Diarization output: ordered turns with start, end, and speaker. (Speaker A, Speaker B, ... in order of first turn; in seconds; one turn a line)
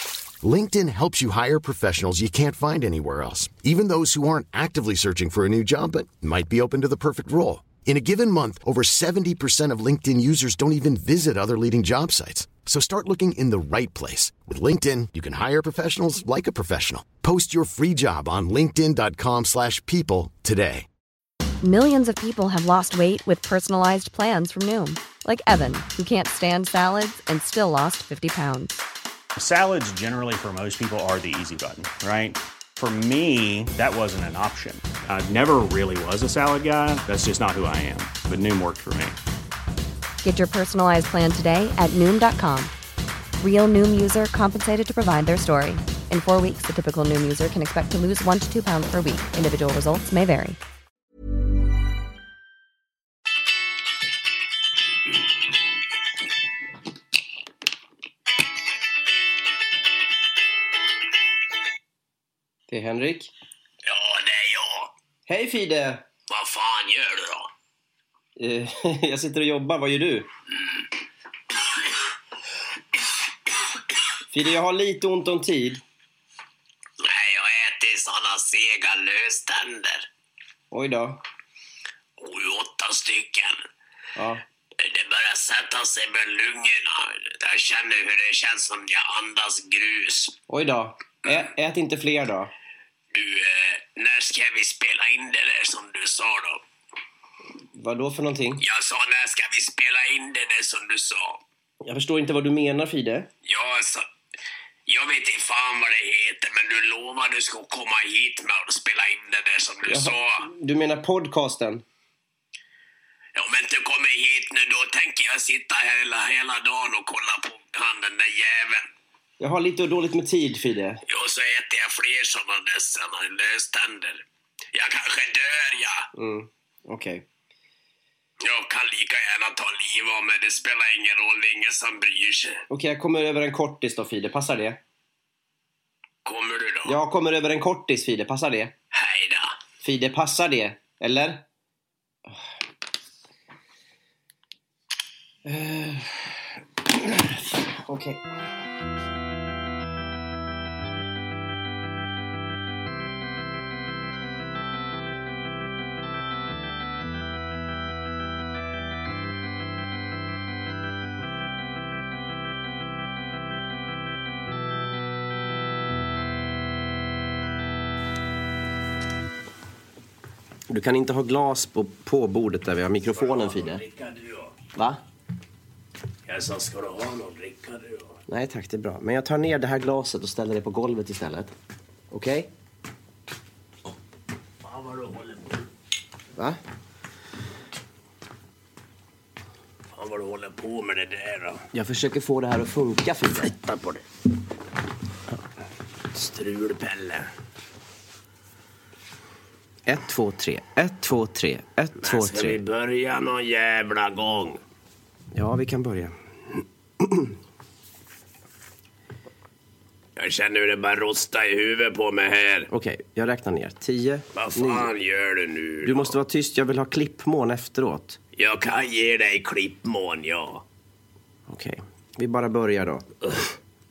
Speaker A: 0.4-20.9
Speaker B: 21.6-28.8
Speaker C: 29.4-39.2
Speaker B: 40.2-42.7
Speaker B: 43.4-50.6
Speaker D: 62.7-63.3
Speaker E: 63.8-64.9
Speaker D: 65.3-66.0
Speaker E: 66.3-67.5
Speaker D: 68.4-70.3
Speaker D: 74.3-75.8
Speaker E: 77.0-80.1
Speaker D: 80.7-81.2
Speaker E: 82.2-83.6
Speaker D: 84.2-84.4
Speaker E: 84.8-90.4
Speaker D: 90.5-92.5
Speaker E: 93.1-96.6
Speaker D: 97.8-98.6
Speaker E: 98.6-101.4
Speaker D: 101.8-103.3
Speaker E: 103.4-104.0
Speaker E: 104.9-110.5
Speaker D: 109.8-111.8
Speaker E: 113.3-118.9
Speaker D: 119.4-121.0
Speaker E: 121.1-126.1
Speaker D: 126.1-127.2
Speaker E: 128.4-132.6
Speaker D: 132.7-134.8
Speaker E: 136.2-136.9
Speaker D: 136.8-138.7
Speaker E: 138.9-139.5
Speaker D: 139.8-141.4
Speaker D: 145.4-146.4
Speaker D: 146.9-148.2
Speaker D: 170.7-173.8
Speaker E: 173.1-174.6
Speaker D: 174.7-175.0
Speaker E: 176.2-178.2
Speaker D: 178.3-181.5
Speaker D: 182.1-182.5
Speaker E: 184.6-185.7
Speaker E: 189.9-191.6
Speaker D: 191.7-193.5
Speaker E: 193.4-194.1
Speaker E: 196.1-197.3
Speaker D: 199.8-202.6
Speaker E: 202.0-204.6
Speaker D: 205.3-206.1
Speaker D: 207.0-207.3
Speaker E: 210.2-212.7
Speaker D: 212.7-214.9
Speaker E: 214.3-216.1
Speaker D: 215.8-218.2
Speaker E: 218.3-220.6
Speaker D: 221.5-223.1